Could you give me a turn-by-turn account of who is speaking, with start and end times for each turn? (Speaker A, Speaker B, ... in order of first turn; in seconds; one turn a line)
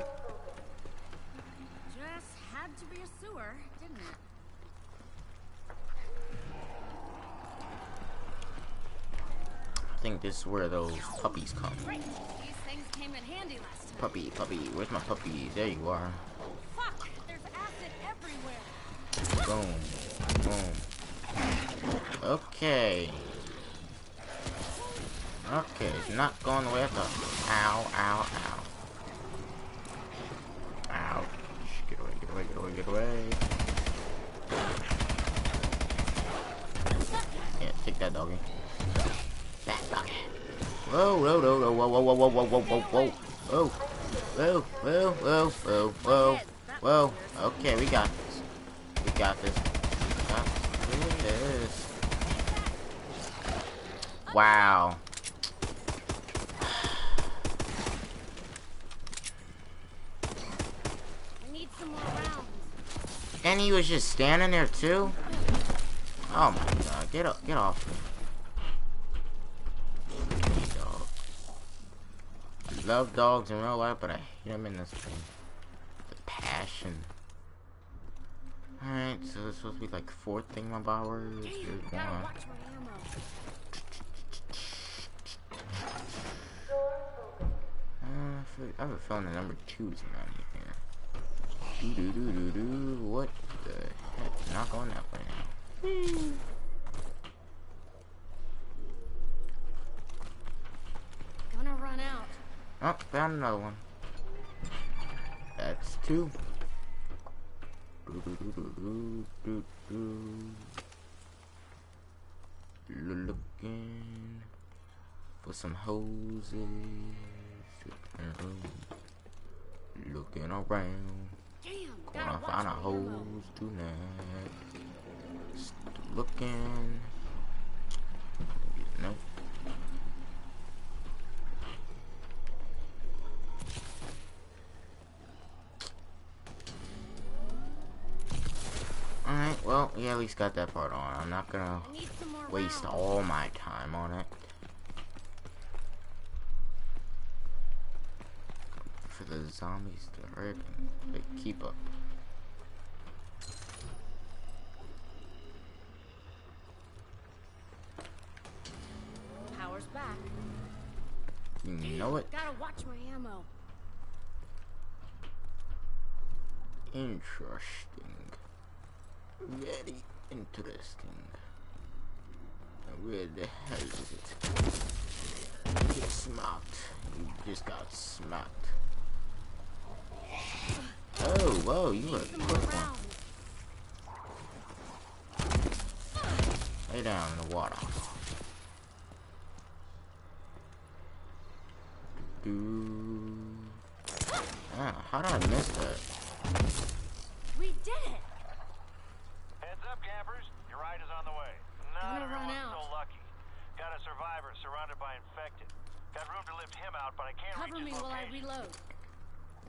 Speaker A: 1.9-4.2
Speaker B: 9.9-11.9
Speaker A: 11.8-14.2
Speaker B: 13.9-16.2
Speaker A: 16.6-19.0
Speaker B: 19.3-20.9
Speaker B: 22.2-23.3
Speaker A: 24.8-25.1
Speaker B: 25.4-28.7
Speaker A: 25.7-26.4
Speaker B: 30.9-33.4
Speaker A: 37.0-37.5
Speaker B: 37.6-38.4
Speaker B: 39.7-40.3
Speaker B: 40.9-48.4
Speaker A: 42.4-43.4
Speaker A: 45.6-47.8
Speaker B: 49.0-51.9
Speaker A: 52.2-52.9
Speaker A: 54.2-54.8
Speaker B: 54.3-55.0
Speaker A: 61.4-62.7
Speaker B: 63.4-65.2
Speaker B: 66.3-68.1
Speaker B: 70.4-71.1
Speaker B: 72.7-75.3
Speaker B: 76.1-77.1
Speaker B: 78.8-82.3
Speaker A: 81.4-83.2
Speaker B: 84.4-85.1
Speaker B: 88.0-90.8
Speaker B: 91.8-96.3
Speaker A: 101.5-102.4
Speaker B: 102.8-103.8
Speaker B: 105.6-106.3
Speaker B: 108.1-110.7
Speaker B: 112.9-114.5
Speaker B: 115.4-118.9
Speaker B: 120.0-121.4
Speaker A: 121.6-123.3
Speaker B: 122.1-124.6
Speaker B: 125.5-127.1
Speaker B: 128.6-129.2
Speaker B: 139.2-141.9
Speaker A: 141.8-143.1
Speaker B: 142.5-144.5
Speaker B: 149.0-151.8
Speaker A: 159.5-160.3
Speaker B: 161.6-162.4
Speaker A: 161.8-163.5
Speaker B: 166.9-168.4
Speaker B: 169.4-171.4
Speaker B: 172.9-174.4
Speaker B: 175.8-178.8
Speaker B: 181.2-182.9
Speaker A: 181.9-183.2
Speaker B: 186.9-188.1
Speaker B: 192.4-193.8
Speaker B: 194.7-196.1
Speaker A: 197.5-198.3
Speaker C: 199.6-208.5
Speaker A: 202.0-202.9
Speaker A: 207.5-208.8